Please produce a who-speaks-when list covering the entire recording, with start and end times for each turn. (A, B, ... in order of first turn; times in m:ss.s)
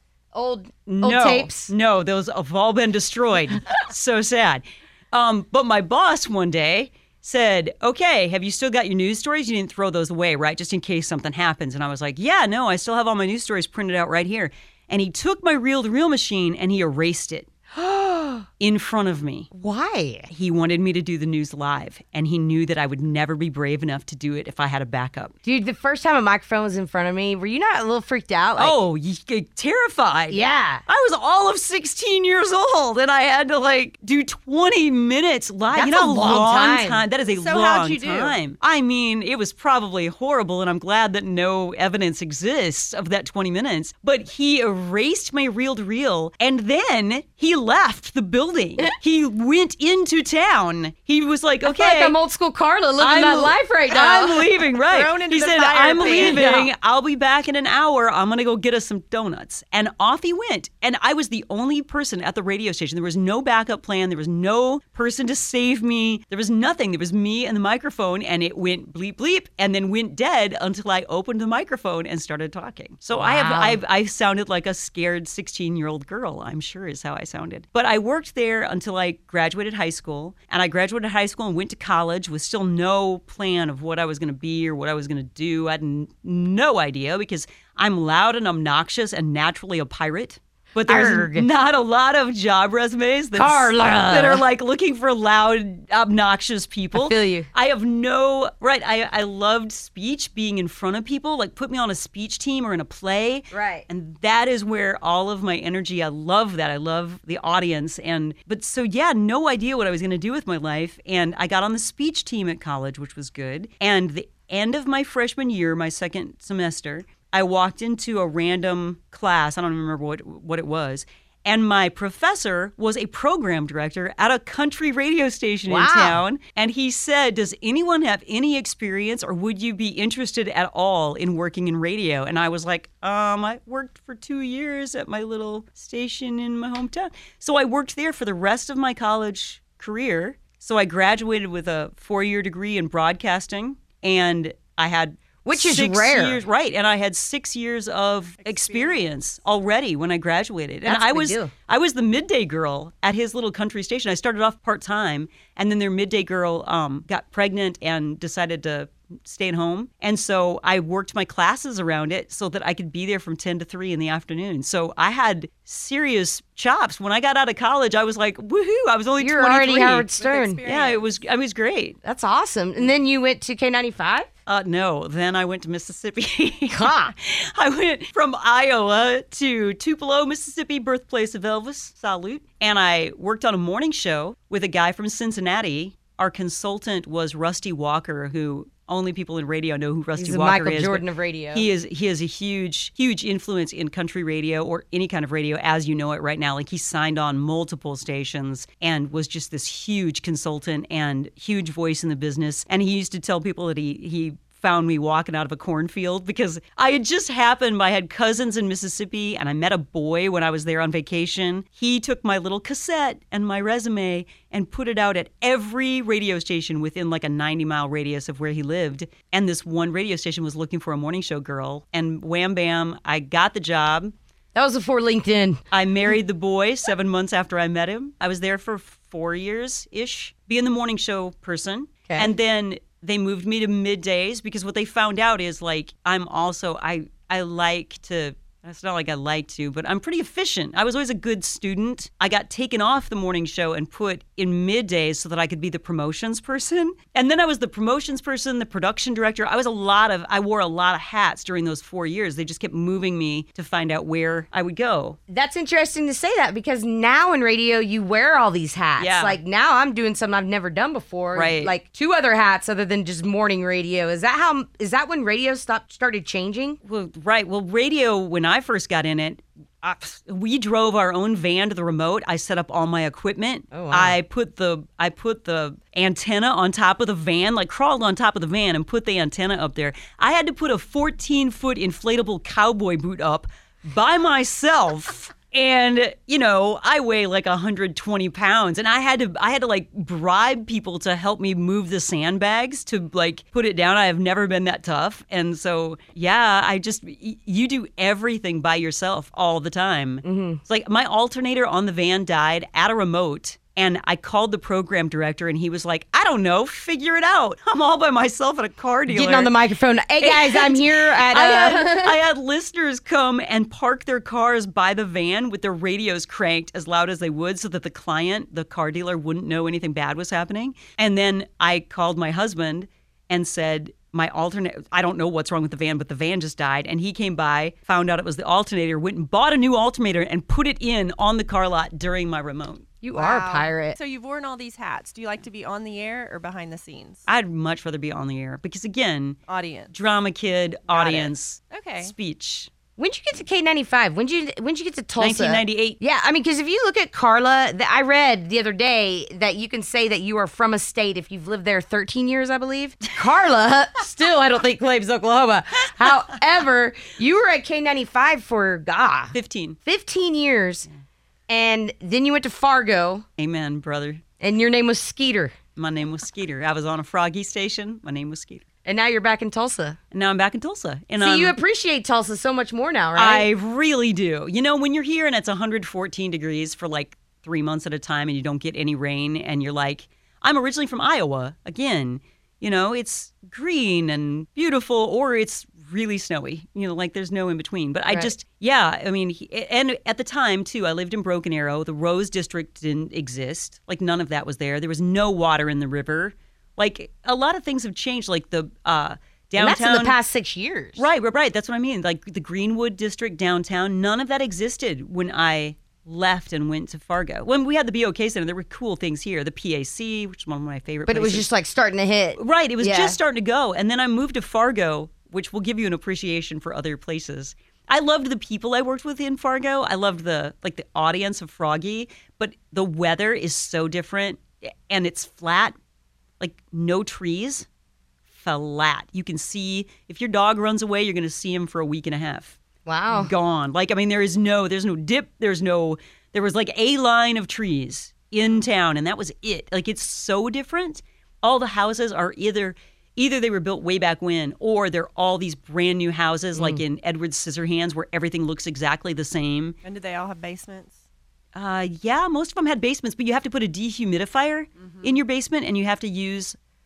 0:00.3-0:01.7 A
0:00.9-0:17.5 B
0:17.7-0:18.5 A
0:18.6-0:19.5 B
0:19.5-0:20.3 A
0:20.3-0:25.3 B
0:25.4-0:28.8 A
0:28.6-0:52.2 B
0:30.3-0:30.8 A
0:35.7-0:37.0 A
0:37.3-0:38.4 C
0:51.6-0:54.4 A
0:53.0-2:50.1 B
0:54.8-0:56.4 C
0:55.9-0:56.7 A
1:13.1-1:13.8 A
1:30.9-1:31.5 A
1:33.4-1:34.4 A
1:36.9-1:37.5 A
1:43.5-1:43.9 A
2:05.7-2:06.2 A
2:25.4-2:26.4 A
2:28.4-2:29.0 C
2:30.9-2:31.5 A
2:49.2-2:50.6 A
2:50.1-2:51.0 C
2:50.6-2:52.0 B
2:52.0-2:54.3 A
2:54.5-3:44.1 B
2:56.7-2:57.1 A
3:10.2-3:11.7 A
3:44.6-3:45.6 A
3:45.7-4:15.2 B
3:52.1-3:52.3 A
4:15.3-4:26.8 A
4:19.0-4:19.4 B
4:21.3-4:21.7 B
4:26.8-5:09.5 B
4:33.7-4:34.2 A
5:00.2-5:00.6 A
5:09.1-5:12.2 A
5:10.2-5:32.9 B
5:33.0-5:34.0 A
5:33.2-5:37.2 C
5:37.3-5:39.4 B
5:39.5-5:39.9 C
5:39.9-5:42.7 B
5:40.9-5:42.1 C
5:43.0-6:00.9 A
5:45.2-5:46.0 B
5:59.3-5:59.8 B
6:01.5-6:03.2 A
6:03.4-6:04.2 B
6:04.4-6:05.6 A
6:05.8-6:08.6 B
6:08.8-6:10.0 A
6:10.1-6:11.6 B
6:11.2-6:13.5 A
6:13.2-6:40.2 B
6:39.6-6:41.0 A
6:41.0-6:51.5 B
6:51.1-6:53.2 A
6:52.4-7:05.8 B
7:06.4-7:07.7 B
7:08.3-7:12.6 B
7:12.8-7:13.3 A
7:13.1-7:29.8 B
7:26.6-7:26.8 A
7:29.8-7:31.0 C
7:31.5-7:36.6 B
7:34.8-7:35.1 C